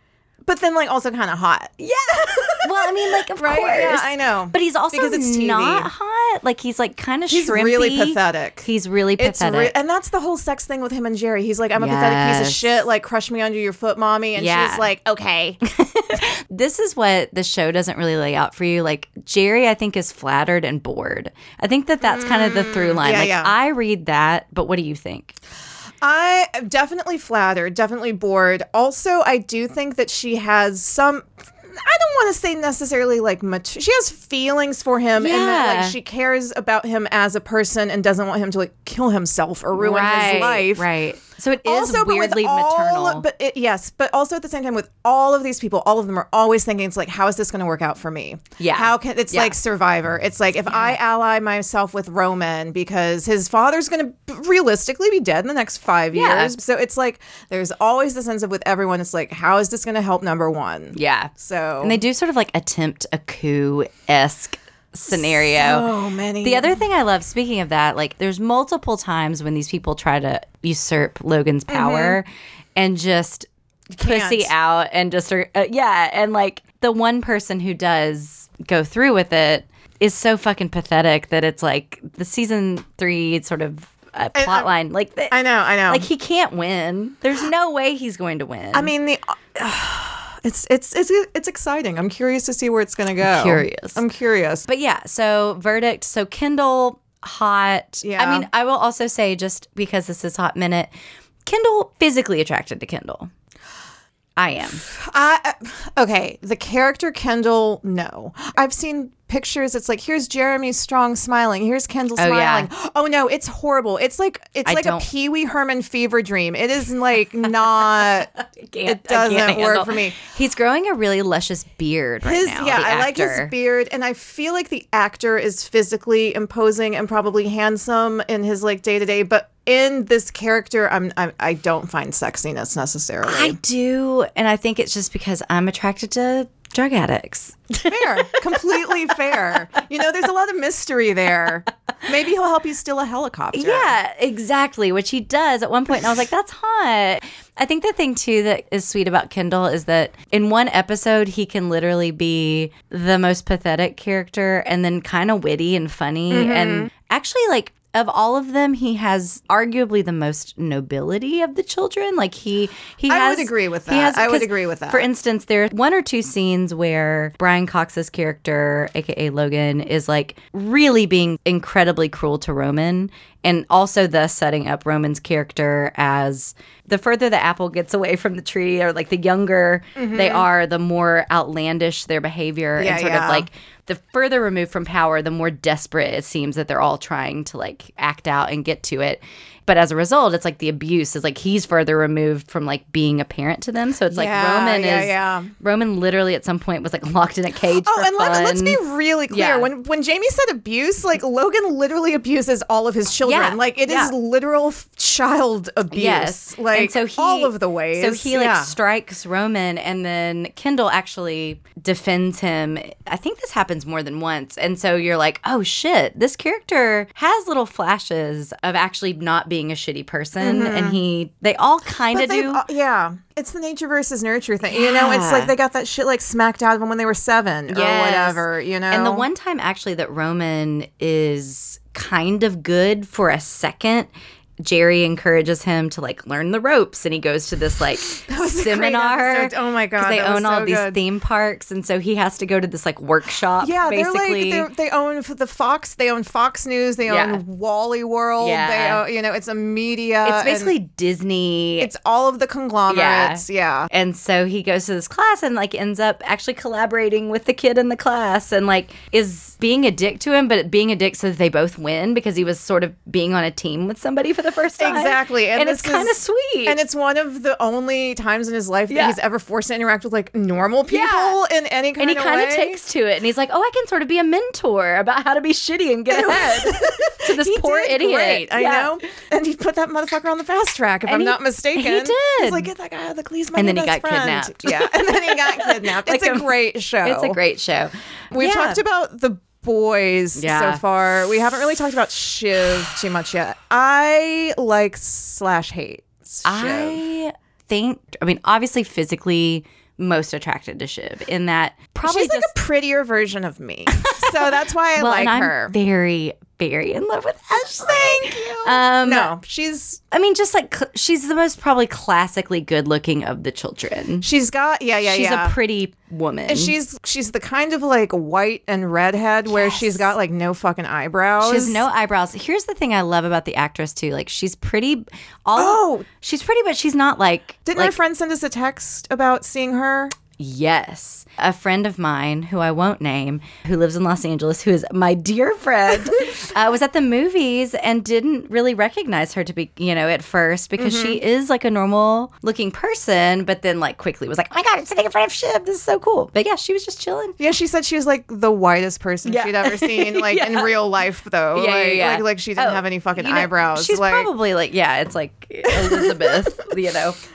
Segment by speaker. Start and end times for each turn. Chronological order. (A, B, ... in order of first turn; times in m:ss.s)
0:00.4-0:05.9 A
0:02.5-0:09.8 B
0:07.3-0:08.7 A
0:09.2-0:15.6 A
0:11.8-0:12.8 B
0:14.4-0:14.9 B
0:15.6-0:25.4 B
0:22.0-0:23.5 A
0:26.0-0:40.9 A
0:35.2-0:36.0 B
0:39.8-0:43.3 B
0:41.6-1:02.0 A
0:48.6-0:49.6 B
0:50.7-0:51.0 B
0:56.1-0:56.6 B
1:00.9-1:01.3 B
1:01.8-1:05.9 B
1:05.1-1:06.8 A
1:06.4-1:13.5 B
1:11.7-1:12.2 A
1:13.9-1:14.5 A
1:14.0-1:25.4 B
1:24.4-1:24.7 A
1:25.3-1:26.1 A
1:25.9-1:28.9 B
1:28.7-1:34.6 A
1:33.2-1:34.0 B
1:34.7-1:40.9 B
1:38.0-1:38.5 A
1:41.5-1:43.3 B
1:44.4-1:44.8 B
1:44.8-1:58.3 A
1:52.2-1:52.7 B
1:54.6-1:55.1 B
1:58.0-2:03.5 B
1:58.8-2:00.2 A
2:02.2-2:13.6 A
2:13.2-2:19.4 B
2:17.8-2:24.0 A
2:23.5-3:18.8 B
2:36.3-2:36.9 A
2:43.1-2:45.1 A
3:00.0-3:00.5 A
3:02.8-3:03.5 A
3:14.1-3:15.5 A
3:17.8-3:28.8 A
3:19.3-3:19.7 B
3:23.2-3:24.1 B
3:25.9-3:42.6 B
3:40.4-3:41.0 A
3:42.1-3:49.3 A
3:44.6-3:45.5 B
3:47.7-3:54.1 B
3:54.6-4:04.7 B
3:58.2-4:01.0 A
4:03.6-4:10.7 A
4:07.1-4:07.4 B
4:08.4-4:09.0 B
4:10.2-4:11.9 B
4:11.8-4:13.9 A
4:12.9-4:26.8 B
4:24.8-4:32.8 A
4:28.9-4:29.2 B
4:30.9-4:31.4 B
4:32.0-4:39.0 B
4:36.1-4:47.4 A
4:41.1-4:42.7 B
4:43.6-4:48.8 B
4:48.3-4:57.0 A
4:50.4-4:50.8 B
4:56.4-5:02.5 B
5:02.0-5:05.8 A
5:03.9-5:04.5 B
5:05.0-5:09.3 B
5:07.7-5:10.0 A
5:10.1-5:14.3 B
5:14.2-5:15.6 A
5:15.0-5:16.7 B
5:16.5-5:21.8 A
5:19.5-5:20.1 B
5:21.4-5:28.0 B
5:25.6-5:26.1 A
5:27.7-5:30.2 A
5:30.4-5:47.4 B
5:40.8-5:41.2 A
5:47.4-5:54.3 A
5:49.2-5:50.7 B
5:51.5-5:57.2 B
5:55.7-5:56.4 A